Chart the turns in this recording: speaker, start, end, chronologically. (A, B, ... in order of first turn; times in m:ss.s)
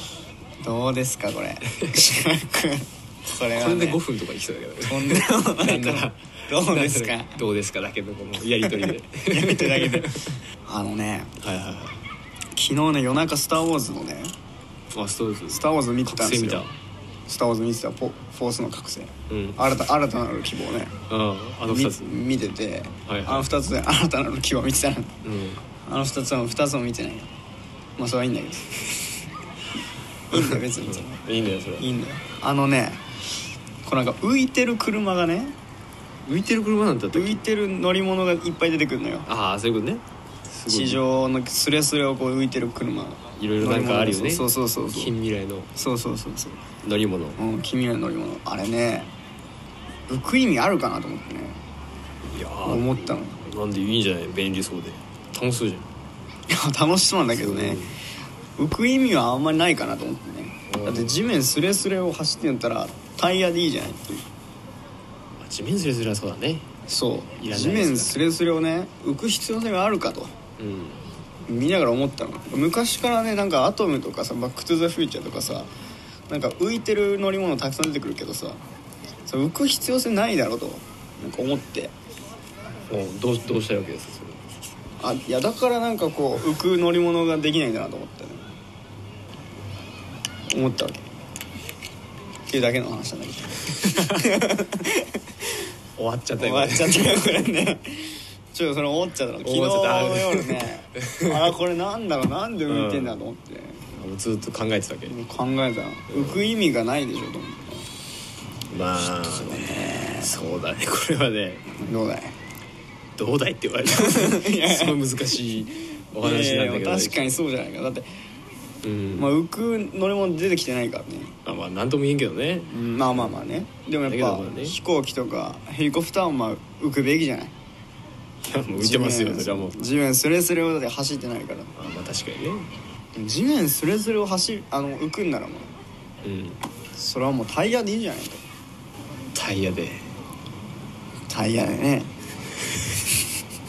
0:00.6-0:04.0 A
0:03.5-0:10.4 B
0:04.8-0:07.4 A
0:08.6-0:11.3 A
0:11.4-0:12.0 B
0:12.5-0:14.3 A
0:14.9-0:16.8 B
0:15.5-0:16.7 A
0:17.3-0:20.9 A
0:19.3-0:19.6 B
0:21.1-0:22.1 B
0:21.6-0:25.2 A
0:23.1-0:23.5 B
0:25.2-0:25.6 B
0:25.8-0:27.3 A
0:28.0-0:28.8 A
0:30.3-0:31.2 A
0:30.3-0:32.0 B
0:31.8-0:33.0 A
0:33.8-0:35.6 A
0:36.2-0:37.4 B
0:37.1-0:39.3 A
0:39.3-0:41.0 B
0:40.7-0:45.1 A
0:43.4-0:45.7 B
0:45.8-0:46.6 A
0:46.8-0:47.4 B
0:47.4-0:49.1 A
0:50.1-0:51.6 A
0:52.3-0:55.9 B
0:52.6-0:53.4 A
0:56.5-0:57.8 A
0:57.3-0:57.9 B
0:58.6-1:04.2 A
1:00.7-1:01.3 B
1:05.4-1:06.7 B
1:06.9-1:10.3 A
1:07.4-1:08.2 B
1:10.6-1:11.0 B
1:11.5-1:15.7 A
1:16.3-1:18.6 A
1:19.2-1:21.9 A
1:22.9-1:24.4 B
1:25.0-1:28.5 A
1:30.5-1:31.0 A
1:32.5-1:35.2 A
1:33.8-1:34.2 B
1:36.0-1:37.4 B
1:36.4-1:43.8 A
1:39.4-1:41.5 B
1:42.7-1:43.2 B
1:43.9-1:45.1 B
1:45.0-1:47.9 A
1:46.1-1:46.4 B
1:48.7-1:51.6 B
1:49.0-1:50.4 A
1:51.7-1:52.4 A
1:53.2-1:57.3 B
1:53.9-1:55.0 A
1:56.2-1:58.1 A
1:58.8-1:59.3 B
1:59.2-2:01.4 A
2:01.4-2:03.4 B
2:02.7-2:07.5 A
2:04.0-2:04.8 B
2:08.4-2:09.8 B
2:08.7-2:11.7 A
2:11.8-2:12.7 B
2:13.1-2:15.7 A
2:16.2-2:16.6 B
2:16.9-2:18.4 A
2:19.3-2:20.1 B
2:21.3-2:22.1 A